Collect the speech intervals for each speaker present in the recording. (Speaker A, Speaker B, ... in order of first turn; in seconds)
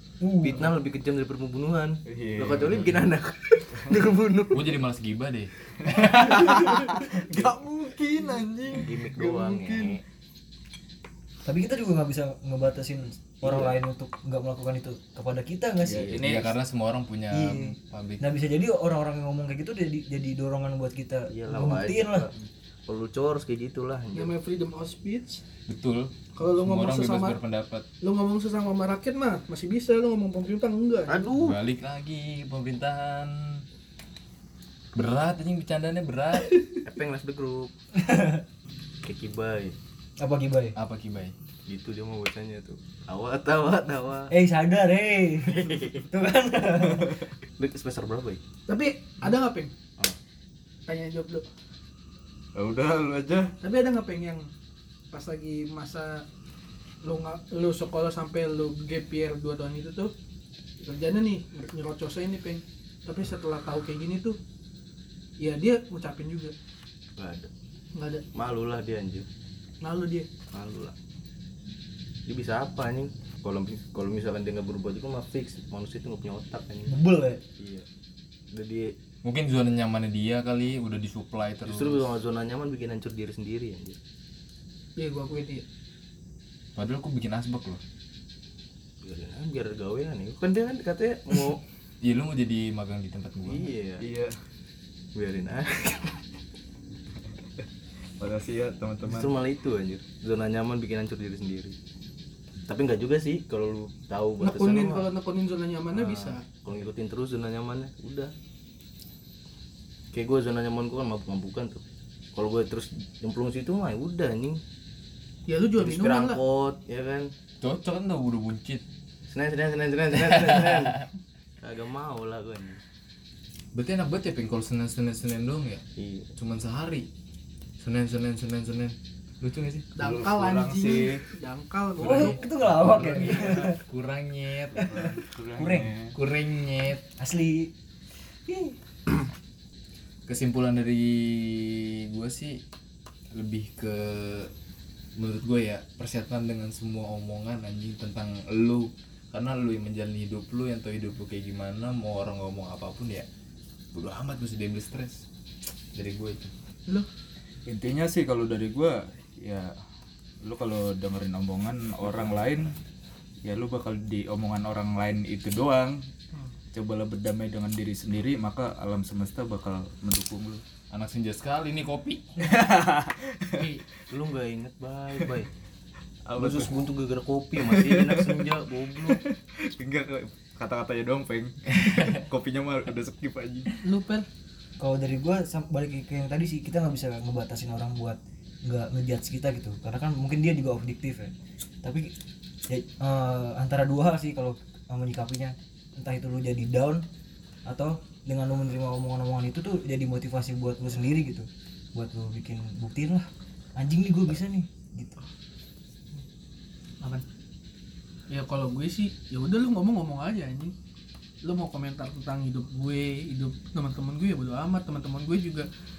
Speaker A: 0.2-0.7, 11.4-16.1, 17.3-22.3, 38.0-38.4, 40.2-40.8, 44.3-47.3, 76.9-77.4, 132.0-133.8, 134.8-135.9, 137.2-137.7, 138.5-138.8, 184.8-191.3, 191.8-192.1, 192.7-197.0, 197.7-205.2
Speaker B: 0.4-4.8, 8.7-10.0, 13.4-13.8, 15.8-16.2, 21.3-24.3, 31.1-31.6, 36.8-37.7, 39.0-39.8, 41.7-44.3, 45.5-46.1, 47.6-48.4, 67.2-67.5, 68.3-69.3, 70.5-71.0, 72.3-77.0, 77.6-77.9, 78.5-79.0, 81.6-84.0, 89.0-91.6, 93.5-94.0, 95.2-96.2, 99.0-101.8, 102.7-105.1, 105.9-108.3, 110.1-111.8, 112.3-114.6, 115.8-117.3, 119.3-121.0, 121.6-122.8, 126.0-126.3, 174.1-175.5, 176.4-179.2
Speaker C: 2.1-2.9, 5.9-10.0, 15.9-16.5, 52.5-53.5, 94.0-94.4, 98.2-99.4, 130.0-131.3, 133.0-133.5, 134.8-136.2, 157.7-159.8, 160.4-162.8, 163.4-166.1, 166.7-170.6, 172.4-173.7, 176.3-176.8, 177.6-183.8
Speaker D: 4.5-6.9, 16.1-18.3, 25.7-27.9, 31.4-33.6, 35.0-36.6, 40.8-41.3, 79.2-82.1, 86.8-87.8, 92.0-93.7, 117.6-118.8, 120.6-120.8, 123.7-125.8, 126.4-127.1, 127.8-129.9, 132.0-135.0, 136.2-137.1, 140.3-142.6, 143.3-144.5, 145.2-153.3, 153.9-155.2, 155.9-156.5, 170.9-172.5, 181.8-182.2
Speaker E: 24.1-25.4, 26.4-27.4, 28.0-31.2, 48.7-49.7, 50.9-51.5, 53.6-54.5, 55.1-56.2, 57.0-60.1, 60.8-64.4, 65.4-66.5, 67.9-68.2, 69.8-70.3, 85.0-85.6, 104.4-106.4, 115.5-116.4, 130.0-132.4, 173.5-173.8, 183.8-184.3, 208.3-210.7, 211.4-215.7